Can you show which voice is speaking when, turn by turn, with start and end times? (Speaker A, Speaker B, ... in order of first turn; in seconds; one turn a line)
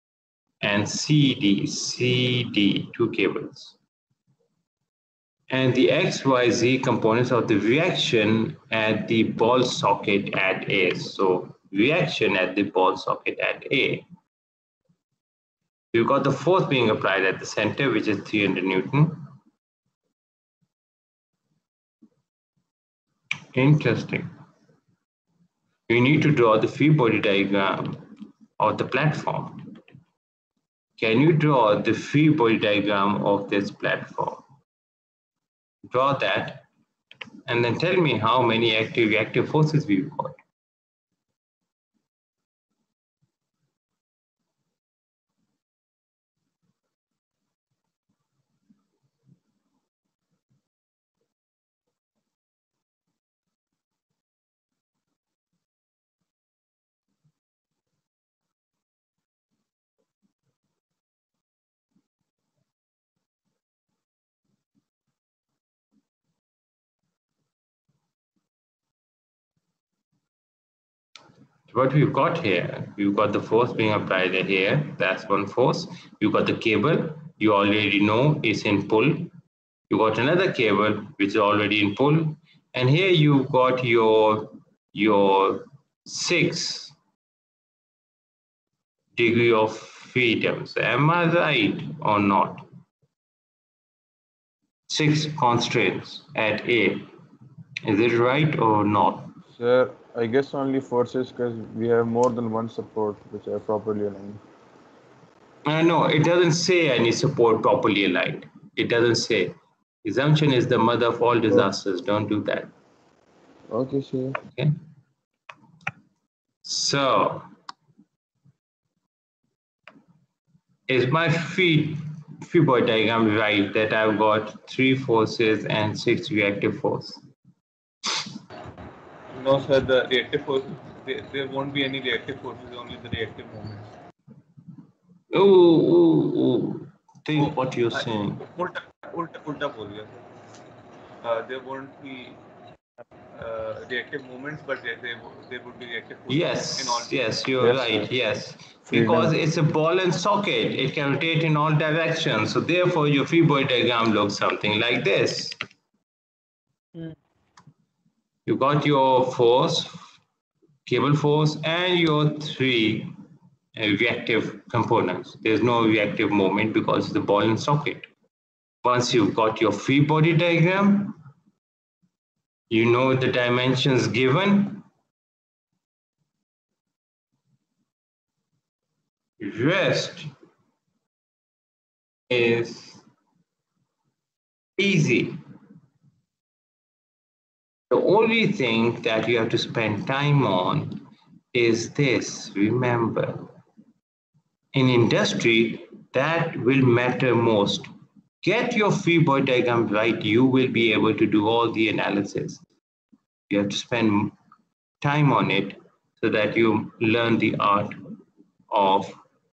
Speaker A: 0.6-3.7
Speaker A: 5.5-14.1
Speaker A: 15.9-19.2
Speaker A: 23.5-24.3
Speaker A: 25.9-28.0
Speaker A: 28.6-29.6
Speaker A: 31.0-34.4
Speaker A: 35.9-36.6
Speaker A: 37.5-40.4
Speaker A: 71.7-79.3
Speaker A: 79.9-86.9
Speaker A: 89.2-92.7
Speaker A: 94.9-97.1
Speaker A: 97.8-99.3
Speaker B: 99.5-104.4
Speaker A: 105.7-112.7
Speaker B: 113.7-114.4
Speaker A: 116.6-117.5
Speaker A: 120.9-127.2
Speaker C: 129.3-133.9
Speaker A: 135.3-138.4
Speaker C: 137.4-140.2
Speaker C: 141.2-142.4
Speaker C: 143.3-147.1
Speaker A: 146.3-155.6
Speaker B: 147.6-148.1
Speaker B: 148.9-149.3
Speaker A: 158.4-160.1
Speaker A: 160.8-163.1
Speaker A: 163.8-168.1
Speaker A: 168.8-171.2
Speaker A: 172.7-174.8
Speaker A: 179.4-180.3
Speaker A: 182.3-183.0
Speaker A: 184.8-185.4
Speaker A: 187.9-191.0
Speaker A: 191.5-193.5
Speaker A: 194.7-197.9
Speaker A: 198.4-202.6
Speaker A: 203.5-204.3
Speaker A: 205.0-207.9
Speaker A: 208.7-209.2